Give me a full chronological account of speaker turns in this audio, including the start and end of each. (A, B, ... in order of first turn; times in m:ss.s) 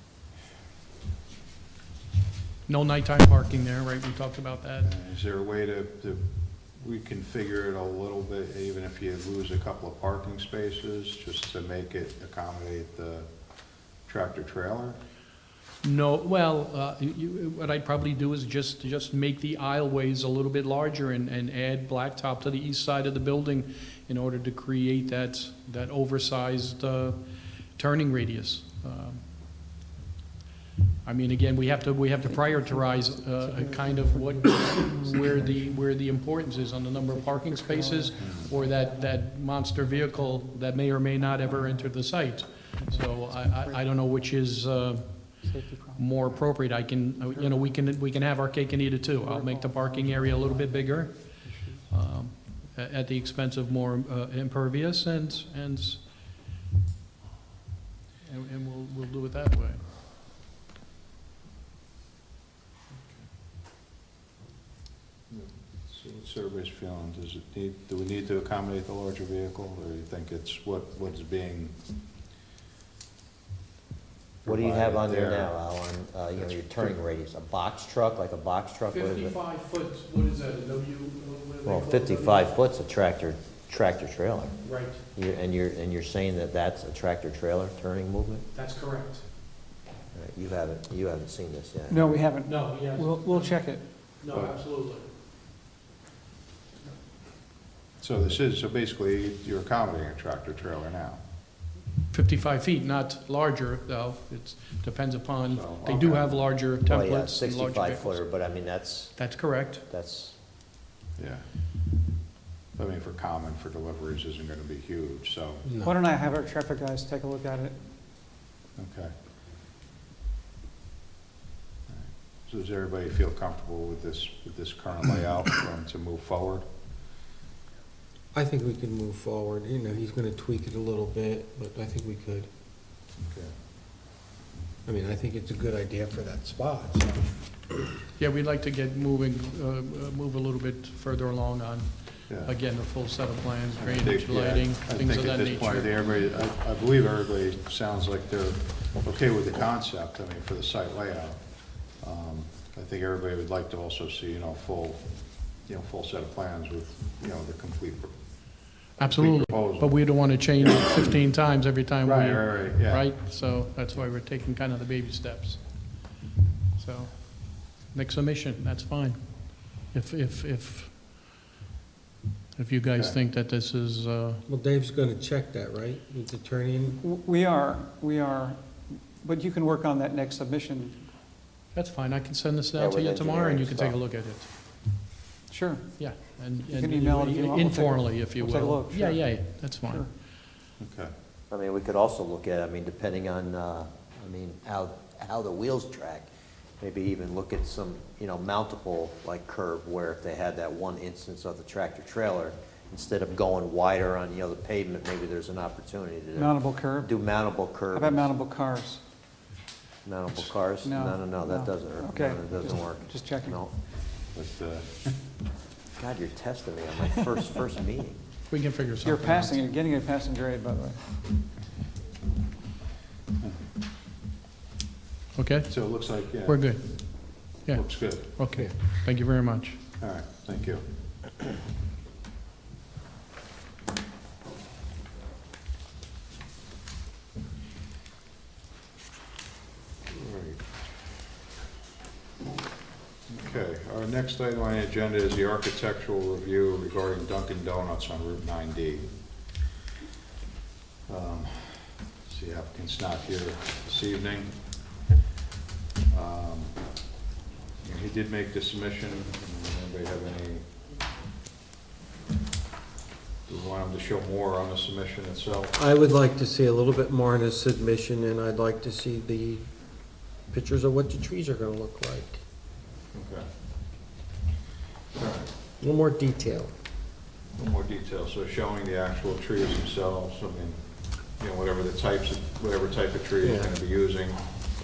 0:02.7-0:04.9 A
0:04.8-0:15.0 B
0:15.8-0:29.7 A
0:31.0-0:56.1 A
0:32.3-0:35.6 C
0:37.1-0:39.2 C
0:38.2-0:38.5 B
0:40.0-0:40.4 C
0:42.8-0:43.8 C
0:45.4-0:46.1 C
0:49.2-0:51.8 C
0:58.2-0:59.8 A
1:02.9-1:03.3 B
1:05.3-1:11.8 B
1:14.4-1:15.6 B
1:14.5-1:19.4 D
1:16.4-1:17.0 B
1:18.9-1:22.6 A
1:21.6-1:24.6 D
1:24.6-1:25.0 A
1:25.2-1:28.5 D
1:28.5-1:29.2 A
1:30.1-1:32.2 D
1:31.9-1:33.8 C
1:32.5-1:35.1 A
1:38.0-1:41.2 B
1:42.1-1:48.2 A
1:45.5-1:46.6 B
1:46.8-1:49.4 D
1:49.2-1:49.8 A
1:49.9-1:50.4 D
1:51.2-1:51.4 B
1:52.8-1:55.7 B
1:55.6-1:55.9 E
1:55.8-1:57.8 C
1:58.8-1:59.1 B
2:01.9-2:06.7 B
2:08.3-2:12.5 E
2:14.9-2:17.3 E
2:18.2-2:25.9 A
2:22.3-2:22.5 B
2:23.8-2:38.2 B
2:39.0-2:41.1 B
2:39.0-2:46.1 A
2:42.0-2:43.1 B
2:46.8-2:51.2 A
2:52.6-2:54.4 A
2:54.5-2:57.0 E
2:56.9-3:01.0 C
3:01.7-3:04.5 A
3:02.8-3:04.0 D
3:05.5-3:06.0 C
3:06.0-3:10.1 A
3:06.6-3:10.1 C
3:10.8-3:11.1 B
3:11.5-3:16.3 D
3:16.8-3:28.3 D
3:26.4-3:27.2 C
3:27.8-3:29.0 C
3:30.0-3:33.7 D
3:30.8-3:33.6 C
3:34.3-3:35.2 B
3:36.0-3:38.2 D
3:38.5-3:39.6 A
3:39.0-3:41.0 C
3:45.4-3:45.8 A
3:45.7-3:48.5 B
3:46.4-3:49.8 A
3:50.0-3:50.8 B
4:00.1-4:00.7 B
4:03.3-4:09.1 B
4:11.1-4:14.8 B
4:16.1-4:16.8 B
4:17.8-4:20.6 B
4:23.5-4:25.8 B
4:25.7-4:29.7 E
4:30.5-4:32.4 E
4:33.1-4:33.5 B
4:35.2-4:35.5 B
4:35.8-4:36.7 E
4:37.6-4:40.8 B
4:41.4-4:44.7 B
4:43.4-4:43.7 E